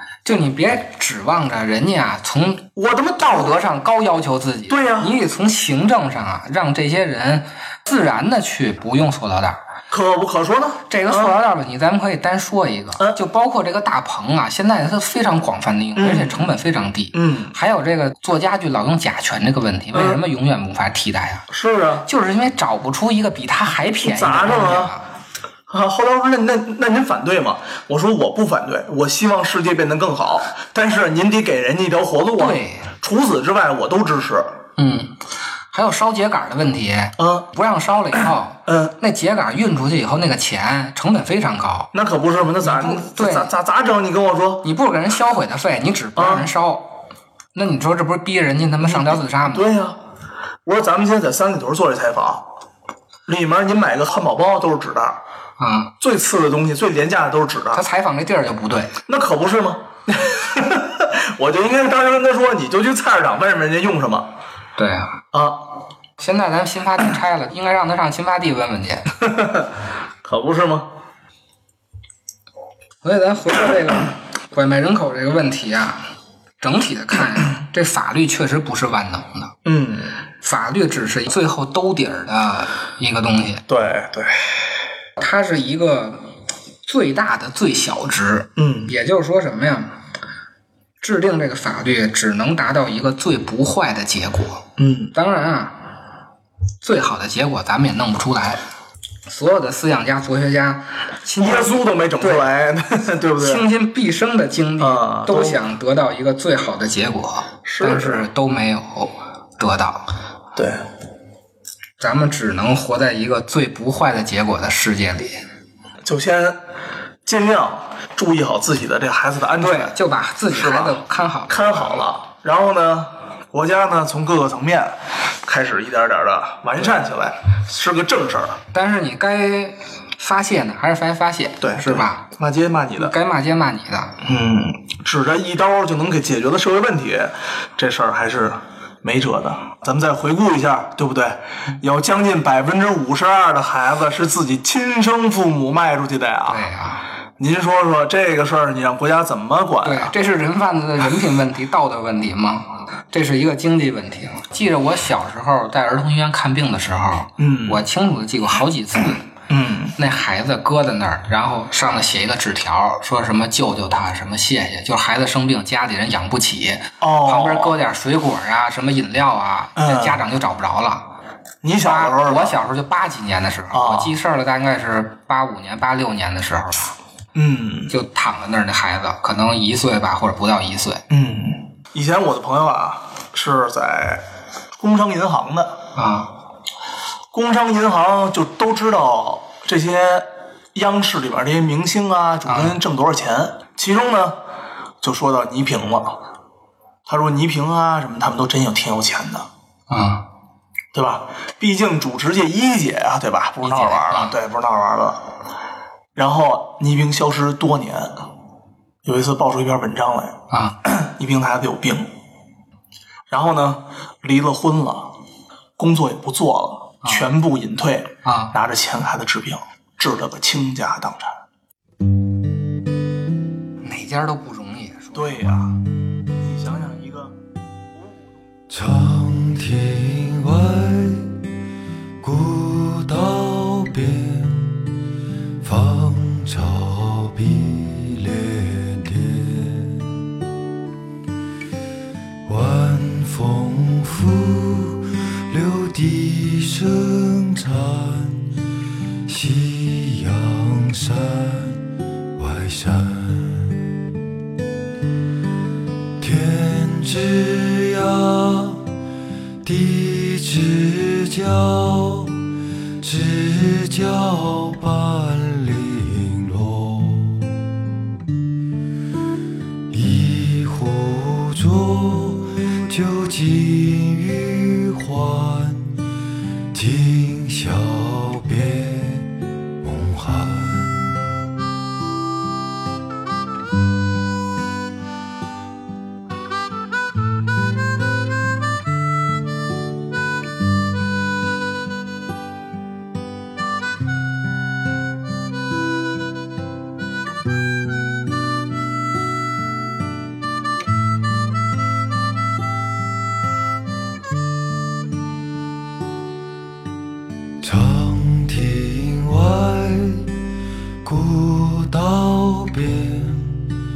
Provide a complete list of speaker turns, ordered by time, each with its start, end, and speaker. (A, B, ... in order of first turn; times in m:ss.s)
0:00.2-0:09.6 A
0:02.8-0:03.6 B
0:04.7-0:05.1 B
0:09.9-0:11.4 B
0:10.9-0:21.4 A
0:16.0-0:16.6 B
0:17.1-0:17.5 B
0:19.9-0:20.2 B
0:21.5-0:22.1 B
0:22.0-0:25.0 A
0:24.0-0:25.0 B
0:25.7-0:34.6 B
0:32.4-0:32.9 A
0:34.8-0:35.2 A
0:35.7-0:41.9 A
0:37.2-0:37.5 B
0:38.7-0:38.9 B
0:41.9-0:44.6 B
0:42.6-0:43.5 A
0:44.6-0:47.0 A
0:46.1-0:46.5 B
0:47.5-0:49.7 A
0:48.8-0:50.0 B
0:50.6-0:52.5 B
0:53.3-0:55.2 B
0:55.6-0:55.9 A
0:56.0-0:57.8 B
0:57.7-0:59.0 A
0:59.0-1:04.3 B
1:04.8-1:05.2 A
1:05.3-1:05.6 B
1:06.2-1:09.1 A
1:09.2-1:09.7 B
1:10.2-1:10.9 B
1:13.0-1:16.1 A
1:16.6-1:19.5 A
1:19.6-1:20.2 B
1:20.4-1:23.6 A
1:23.7-1:24.8 B
1:25.2-1:26.3 A
1:26.8-1:29.9 A
1:28.6-1:28.9 B
1:31.0-1:35.8 A
1:34.8-1:35.1 B
1:36.8-1:38.6 A
1:39.2-1:42.5 A
1:41.4-1:43.7 B
1:43.4-1:50.1 A
1:44.8-1:45.6 B
1:47.6-1:48.3 B
1:50.5-1:50.8 B
1:52.0-1:55.4 A
1:56.0-1:56.6 B
1:57.2-2:00.0 B
1:59.6-2:02.0 A
2:00.5-2:08.6 B
2:08.7-2:12.2 A
2:11.6-2:13.1 B
2:13.0-2:14.2 A
2:14.2-2:26.7 B
2:26.5-2:27.0 A
2:27.4-2:30.1 B
2:29.8-2:39.3 A
2:37.4-2:37.8 B
2:39.5-2:40.0 B
2:40.0-2:51.1 A
2:47.0-2:47.8 B
2:49.8-2:50.2 B
2:51.6-2:52.6 B
2:51.8-2:56.9 A
2:53.7-2:54.2 B
2:57.3-2:57.9 B
2:57.9-3:01.0 A
3:01.1-3:04.2 B
3:04.8-3:05.8 B
3:05.9-3:06.3 A
3:07.3-3:14.4 B
3:12.5-3:12.8 A
3:15.0-3:16.2 B
3:17.0-3:19.5 B
3:19.9-3:20.3 A
3:20.9-3:25.3 B
3:23.6-3:24.4 A
3:26.1-3:28.3 B
3:29.0-3:32.1 B
3:30.5-3:30.8 A
3:33.3-3:35.1 B
3:35.8-3:41.4 B
3:38.2-3:38.5 A
3:43.8-3:45.6 A
3:45.1-3:45.8 B
3:46.4-3:47.4 B
3:48.7-3:51.3 C
3:52.2-3:54.8 C
3:55.6-4:00.3 C
4:02.4-4:08.5 C
4:09.2-4:13.8 C
4:16.2-4:18.9 C
4:19.6-4:22.4 C
4:23.0-4:27.7 C
4:29.9-4:36.0 C
4:36.7-4:41.4 C
5:07.6-5:10.4 C
5:11.0-5:13.7 C